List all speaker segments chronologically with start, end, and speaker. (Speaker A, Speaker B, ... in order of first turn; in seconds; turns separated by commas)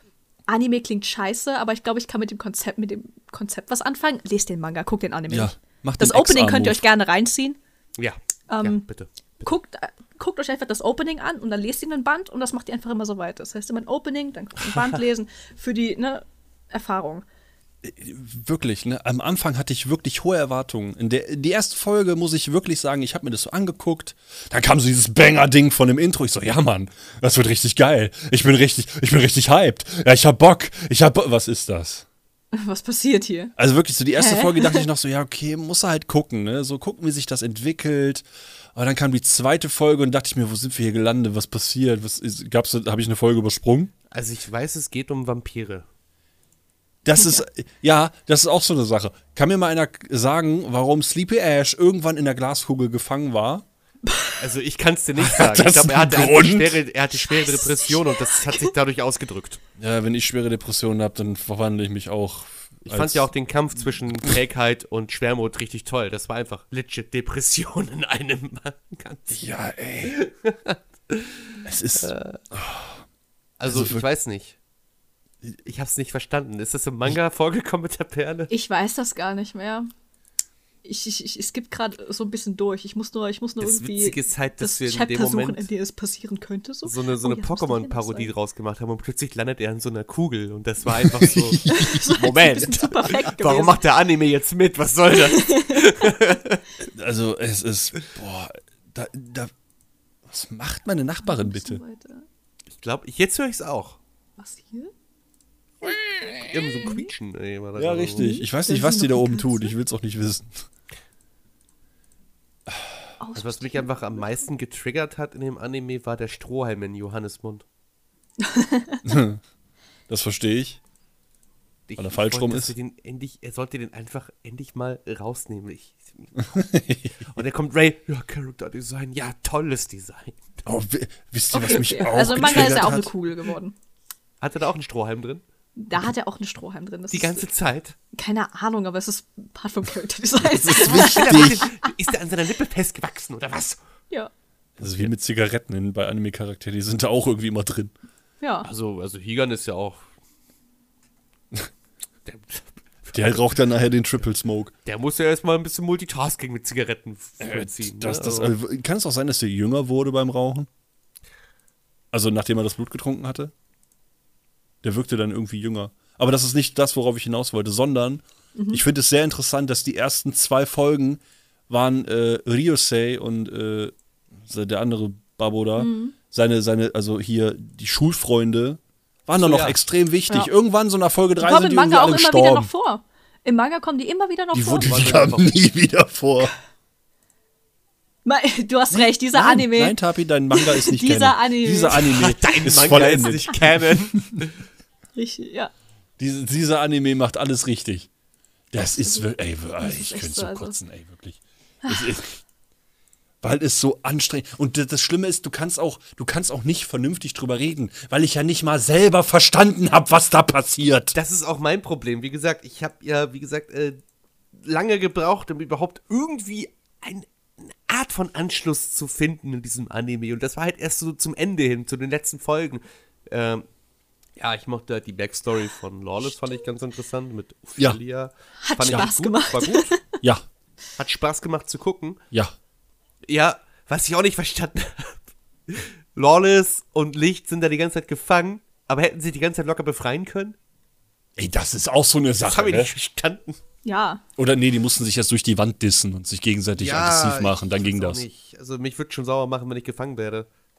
Speaker A: 0.5-7.6, Speaker B: 5.3-6.8, Speaker C: 8.0-9.1, Speaker A: 8.5-8.8, Speaker A: 9.4-17.2, Speaker C: 14.6-15.0, Speaker B: 17.8-32.0, Speaker A: 32.5-33.5, Speaker B: 33.5-38.2, Speaker A: 34.1-34.9, Speaker B: 38.7-43.9, Speaker C: 44.1-45.9, Speaker B: 47.0-53.6, Speaker A: 54.0-54.4, Speaker C: 54.4-59.6, Speaker B: 55.2-56.8, Speaker A: 57.3-58.7, Speaker B: 59.8-63.3, Speaker C: 62.9-69.5, Speaker B: 69.3-70.2, Speaker C: 70.0-72.4, Speaker B: 71.6-72.9, Speaker C: 73.6-74.5, Speaker B: 73.7-74.0, Speaker C: 75.6-78.5, Speaker A: 78.5-79.9, Speaker A: 80.8-88.3, Speaker C: 83.6-85.7, Speaker C: 86.8-96.6, Speaker B: 91.0-92.1, Speaker A: 91.7-93.8, Speaker A: 95.2-96.1, Speaker B: 96.8-99.5, Speaker B: 100.3-101.8, Speaker A: 101.2-102.2, Speaker C: 102.7-104.0, Speaker A: 104.4-104.9, Speaker C: 106.5-108.3, Speaker B: 107.8-110.6, Speaker A: 108.2-109.7, Speaker A: 113.2-114.2, Speaker C: 113.3-117.6, Speaker A: 118.4-119.0, Speaker B: 119.0-119.4, Speaker B: 120.1-120.8, Speaker C: 121.9-126.6, Speaker B: 122.0-122.7, Speaker B: 126.4-127.3, Speaker C: 127.3-130.6, Speaker B: 130.6-133.1, Speaker A: 131.5-133.7, Speaker C: 134.4-135.4, Speaker A: 135.8-137.5, Speaker C: 137.1-137.9, Speaker A: 138.1-141.9, Speaker B: 140.4-141.7, Speaker C: 140.7-143.8, Speaker C: 144.8-145.1, Speaker B: 144.8-147.9, Speaker A: 148.4-148.7, Speaker C: 148.6-150.0, Speaker C: 152.2-153.4, Speaker B: 153.1-154.7, Speaker C: 154.8-158.5, Speaker B: 157.4-160.7, Speaker B: 162.1-163.5, Speaker B: 164.8-182.7, Speaker A: 168.6-168.8, Speaker A: 175.8-176.1, Speaker C: 179.4-179.8, Speaker A: 181.4-184.9, Speaker B: 184.5-186.5, Speaker C: 184.8-185.5, Speaker A: 188.2-190.0, Speaker B: 188.9-194.4, Speaker A: 190.5-192.0, Speaker C: 191.9-194.6, Speaker A: 195.2-195.7, Speaker B: 196.2-198.1, Speaker B: 198.7-202.4, Speaker A: 199.0-199.3, Speaker A: 199.8-200.8, Speaker A: 201.8-202.2, Speaker B: 203.4-211.2, Speaker C: 211.1-214.0, Speaker C: 214.6-223.6, Speaker C: 224.4-230.0, Speaker A: 228.6-230.0, Speaker C: 231.0-232.2, Speaker C: 233.2-240.6, Speaker B: 241.3-242.9, Speaker C: 242.4-243.6, Speaker A: 243.8-244.2, Speaker B: 244.4-248.2, Speaker C: 246.8-250.5